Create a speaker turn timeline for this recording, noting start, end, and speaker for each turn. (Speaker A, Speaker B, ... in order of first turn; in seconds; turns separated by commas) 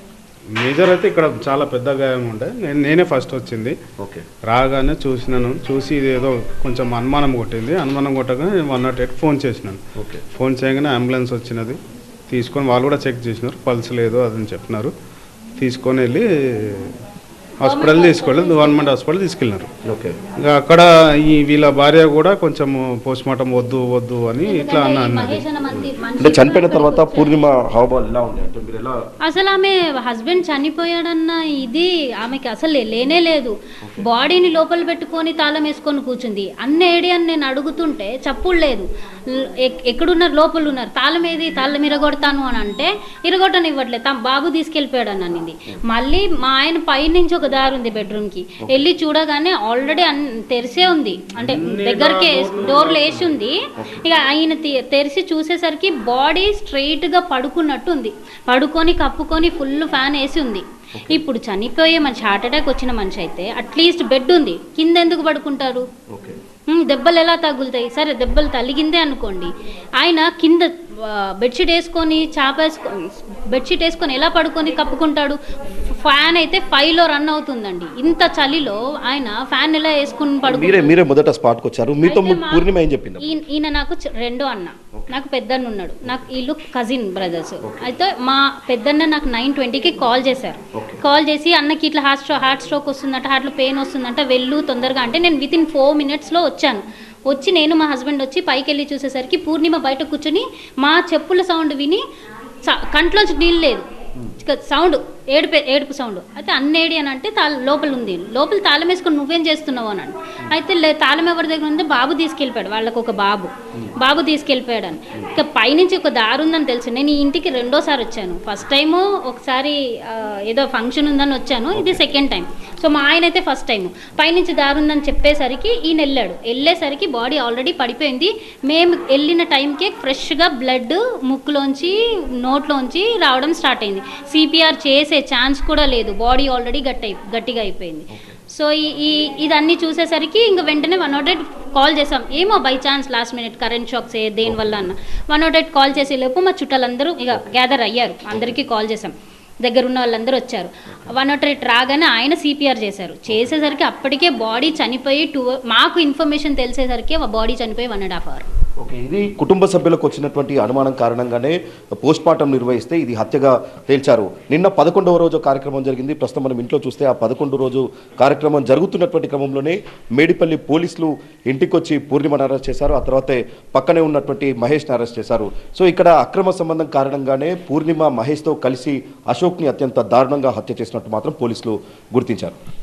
Speaker A: 0.5-3.8, Speaker B: 4.0-4.2, Speaker A: 4.4-14.9, Speaker B: 10.0-10.2, Speaker A: 15.6-16.9, Speaker A: 17.6-19.7, Speaker C: 17.6-18.9, Speaker B: 19.9-20.2, Speaker A: 20.4-25.4, Speaker C: 24.4-27.4, Speaker B: 25.7-29.0, Speaker C: 29.2-65.8, Speaker A: 51.4-53.3, Speaker B: 60.9-61.2, Speaker B: 66.1-66.4, Speaker C: 66.7-75.4, Speaker C: 76.0-80.9, Speaker B: 80.4-83.3, Speaker C: 82.0-82.7, Speaker C: 83.2-102.0, Speaker B: 87.6-87.9, Speaker B: 90.7-91.0, Speaker C: 102.6-103.8, Speaker C: 104.4-149.1, Speaker B: 121.7-122.0, Speaker B: 144.4-144.9, Speaker C: 149.6-158.4, Speaker B: 158.8-182.6